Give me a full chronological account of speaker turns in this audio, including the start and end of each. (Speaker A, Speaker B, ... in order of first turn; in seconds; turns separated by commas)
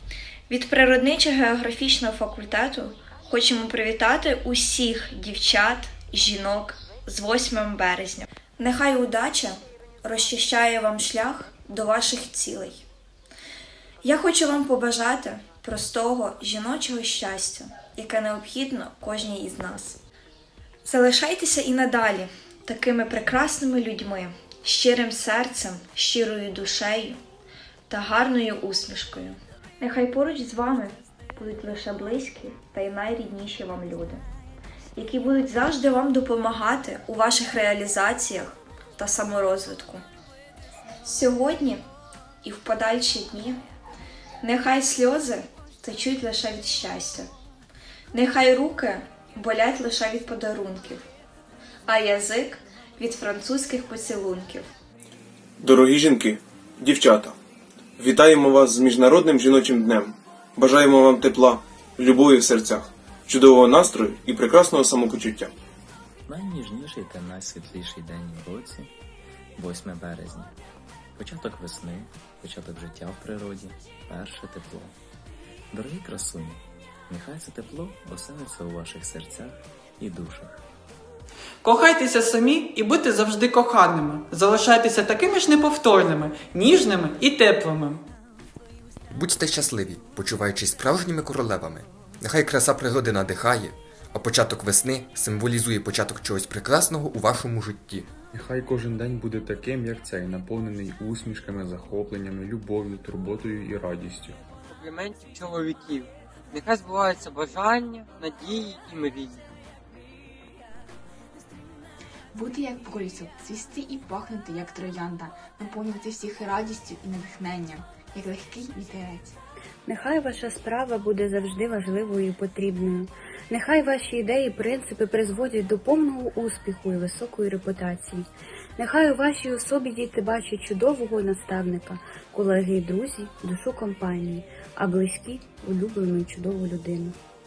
Speaker A: 0.5-12.8, Speaker A: 14.0-20.0, Speaker A: 20.8-27.2, Speaker A: 27.9-34.2, Speaker A: 35.0-40.0, Speaker A: 41.0-41.8, Speaker A: 42.4-43.6, Speaker A: 44.4-47.3, Speaker A: 48.1-51.0, Speaker A: 51.9-54.7, Speaker B: 55.6-57.4, Speaker B: 58.0-65.5, Speaker C: 66.3-68.9, Speaker C: 69.6-70.5, Speaker C: 71.2-74.9, Speaker C: 75.7-80.6, Speaker D: 81.6-88.0, Speaker E: 89.1-98.1, Speaker F: 98.3-104.3, Speaker G: 104.7-109.4, Speaker H: 112.3-119.4, Speaker I: 119.9-128.2, Speaker I: 128.8-137.2